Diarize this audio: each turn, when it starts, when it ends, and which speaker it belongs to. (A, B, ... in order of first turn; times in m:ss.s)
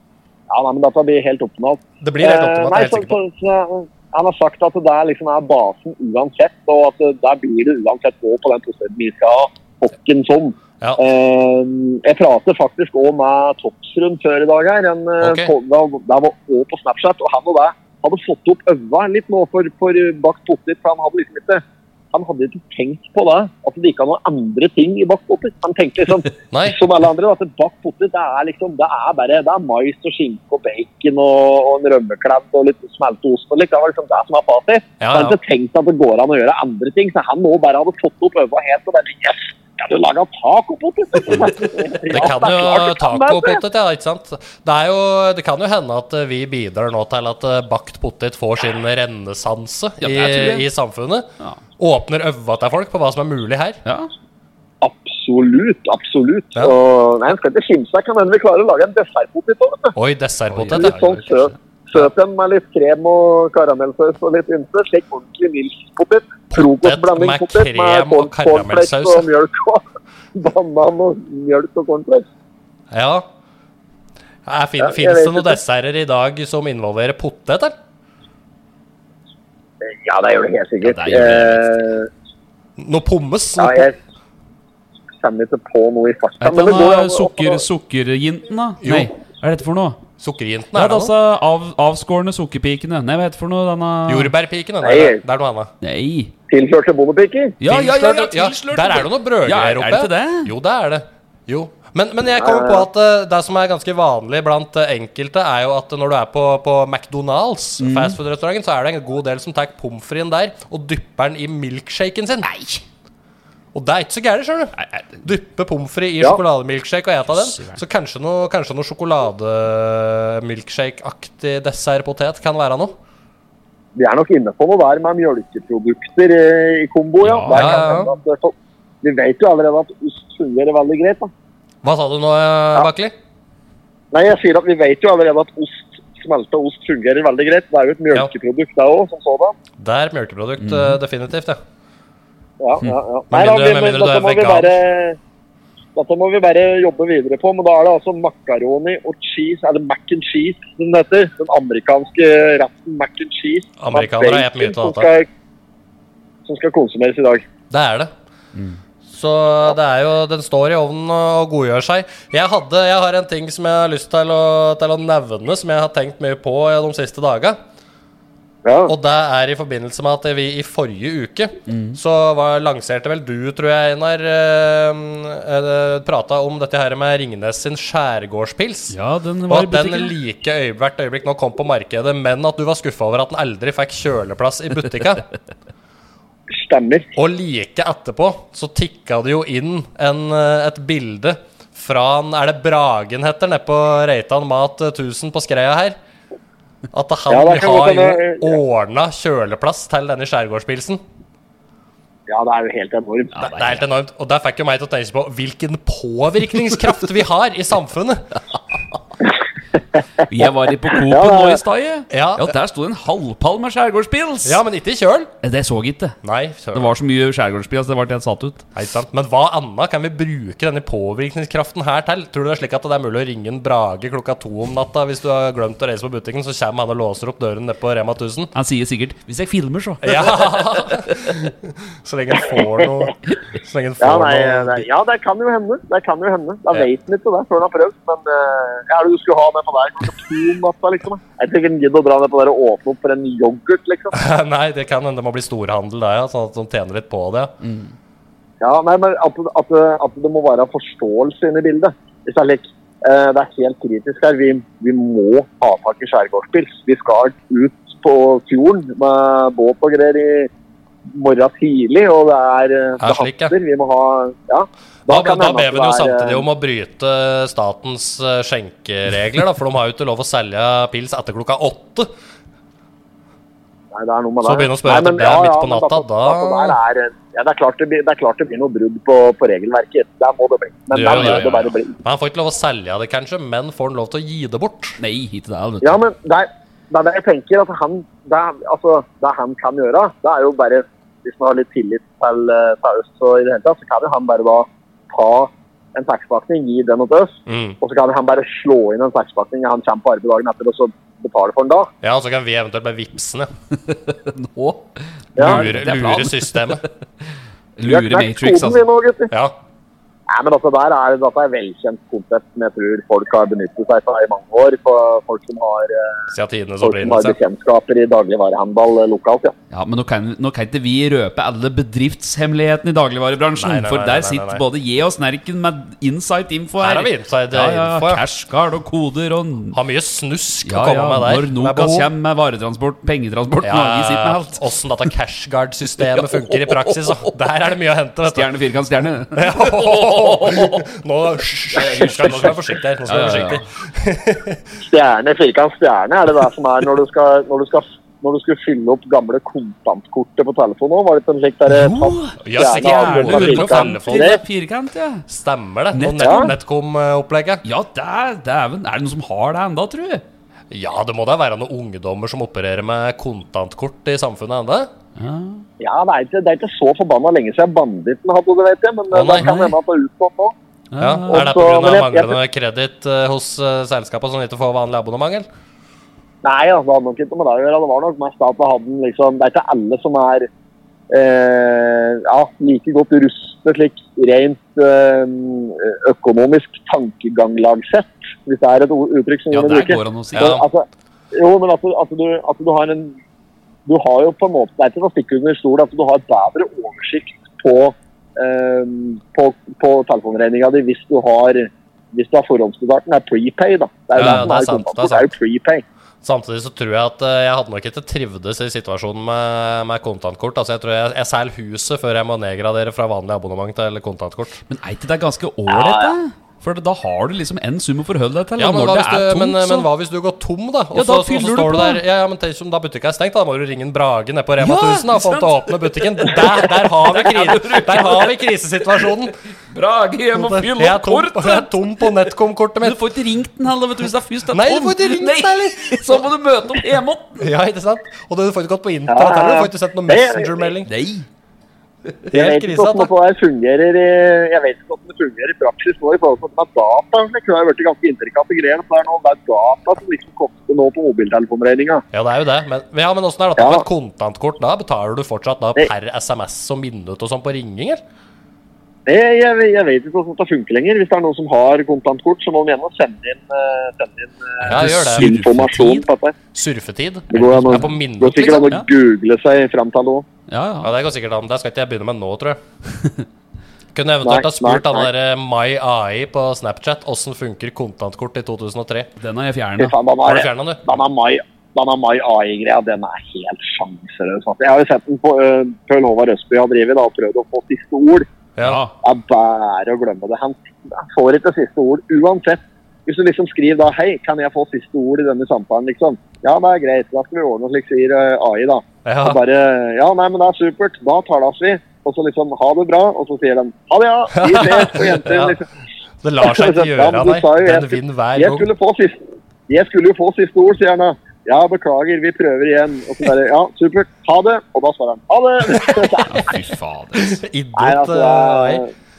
0:00.5-0:43.6 A
0:02.0-0:03.2 B
0:15.2-0:15.5 B
0:26.5-0:26.8 B
0:35.0-0:35.4 B
0:42.1-0:51.3 B
0:50.0-0:50.7 C
0:51.8-0:53.8 B
0:53.8-0:54.1 C
0:54.8-1:00.0 A
1:00.0-1:02.1 B
1:00.5-1:00.9 C
1:00.7-1:12.3 A
1:06.5-1:09.3 B
1:12.9-1:13.3 B
1:14.5-1:17.8 B
1:14.8-1:15.6 A
1:19.9-1:22.1 A
1:20.8-1:21.7 C
1:22.8-1:23.9 B
1:23.6-1:24.0 A
1:25.2-1:27.6 A
1:26.4-1:30.0 C
1:28.8-1:29.1 B
1:30.2-1:31.1 B
1:30.7-1:34.3 C
1:34.1-1:35.7 B
1:34.8-1:35.2 A
1:35.8-1:36.3 C
1:36.5-1:37.6 A
1:37.6-1:40.5 C
1:37.7-1:52.5 B
1:42.4-1:42.9 A
1:47.8-1:48.2 C
1:52.4-1:52.9 C
1:53.7-2:03.0 B
1:54.8-1:55.3 C
1:57.3-1:57.8 C
2:04.0-2:11.3 A
2:07.2-2:07.8 C
2:07.5-2:08.1 B
2:11.8-2:13.1 B
2:14.1-2:19.6 A
2:19.8-2:21.6 B
2:20.6-2:21.0 C
2:22.6-2:25.2 A
2:23.3-2:24.7 B
2:26.0-2:35.3 A
2:33.8-2:35.1 B
2:36.5-2:37.4 A
2:37.7-2:38.1 B
2:39.1-2:47.6 B
2:48.6-2:48.9 A
2:48.9-2:59.0 B
2:51.7-2:52.0 C
2:58.9-3:00.1 C
2:59.5-3:05.3 B
3:06.5-3:07.1 A
3:07.2-3:16.0 B
3:16.9-3:21.0 B
3:17.3-3:18.6 A
3:22.3-3:23.4 A
3:23.3-3:23.9 C
3:23.4-3:28.2 B
3:30.3-3:34.6 C
3:30.9-3:31.6 A
3:32.1-3:32.5 B
3:34.4-3:35.3 B
3:35.4-3:36.2 C
3:36.2-3:36.9 B
3:36.7-3:38.7 C
3:38.8-3:48.5 B
3:48.5-3:51.4 C
3:50.0-3:54.8 B
3:54.0-4:04.2 A
4:04.1-4:07.6 B
4:07.6-4:07.9 C
4:08.6-4:20.5 A
4:21.1-4:26.4 A
4:23.0-4:23.5 B
4:25.1-4:32.1 B
4:33.9-4:42.0 A
4:34.4-4:36.8 B
4:40.9-4:45.0 B
4:41.1-4:41.7 C
4:45.0-4:46.0 C
4:45.8-5:01.9 A
4:57.5-4:57.8 B
5:02.0-5:03.5 B
5:03.8-5:06.9 C
5:05.4-5:05.6 A
5:05.4-5:06.8 B
5:07.8-5:08.8 C
5:07.9-5:09.3 A
5:10.3-5:16.3 A
5:16.3-5:17.4 B
5:16.8-5:19.5 A
5:19.7-5:29.8 C
5:23.6-5:24.6 B
5:26.8-5:28.2 B
5:29.7-5:32.1 B
5:30.6-5:34.6 C
5:33.6-5:38.5 B
5:36.0-5:37.3 C
5:38.3-5:40.9 C
5:39.4-5:44.6 B
5:41.7-5:43.6 C
5:44.8-5:54.4 A
5:51.7-5:55.2 C
5:52.4-5:54.4 B
5:55.3-5:57.6 B
5:56.0-5:56.6 C
5:56.2-5:56.5 A
5:57.6-6:00.2 C
6:00.7-6:04.9 B
6:05.2-6:05.6 C
6:05.8-6:10.6 A
6:09.1-6:09.5 B
6:09.4-6:09.7 C
6:10.9-6:11.5 C
6:11.0-6:15.5 B
6:11.3-6:12.4 A
6:16.4-6:20.5 A
6:21.1-6:33.2 A
6:29.5-6:30.6 C
6:30.4-6:30.6 B
6:33.9-6:45.8 A
6:44.2-6:45.3 B
6:44.2-6:44.5 C
6:46.2-6:54.6 B
6:54.7-6:59.9 C
6:55.7-6:56.1 A
6:58.6-7:09.4 B
7:00.9-7:02.0 C
7:04.6-7:12.1 C
7:10.4-7:13.0 B
7:12.8-7:17.5 C
7:14.5-7:16.2 B
7:17.4-7:20.9 B
7:19.1-7:20.7 A
7:20.9-7:21.3 C
7:22.3-7:23.1 B
7:22.3-7:32.0 A
7:32.1-7:38.0 B
7:33.6-7:33.9 A
7:39.1-7:46.4 A
7:44.6-7:46.1 C
7:44.7-7:45.3 B
7:46.5-7:48.8 B
7:47.3-7:50.3 A
7:47.4-7:48.9 C
7:50.5-7:50.9 C
7:50.8-7:52.6 B
7:53.9-7:59.1 B
7:54.2-7:55.1 A
7:59.2-8:00.0 C
7:59.8-8:08.3 A
8:00.3-8:00.8 B
8:08.6-8:08.8 B
8:08.6-8:08.9 C
8:09.0-8:25.7 A
8:19.0-8:19.4 B
8:24.4-8:25.6 B
8:26.2-8:28.7 B
8:26.4-8:36.5 A
8:36.3-8:37.4 C
8:37.2-8:38.8 B
8:37.8-8:38.9 A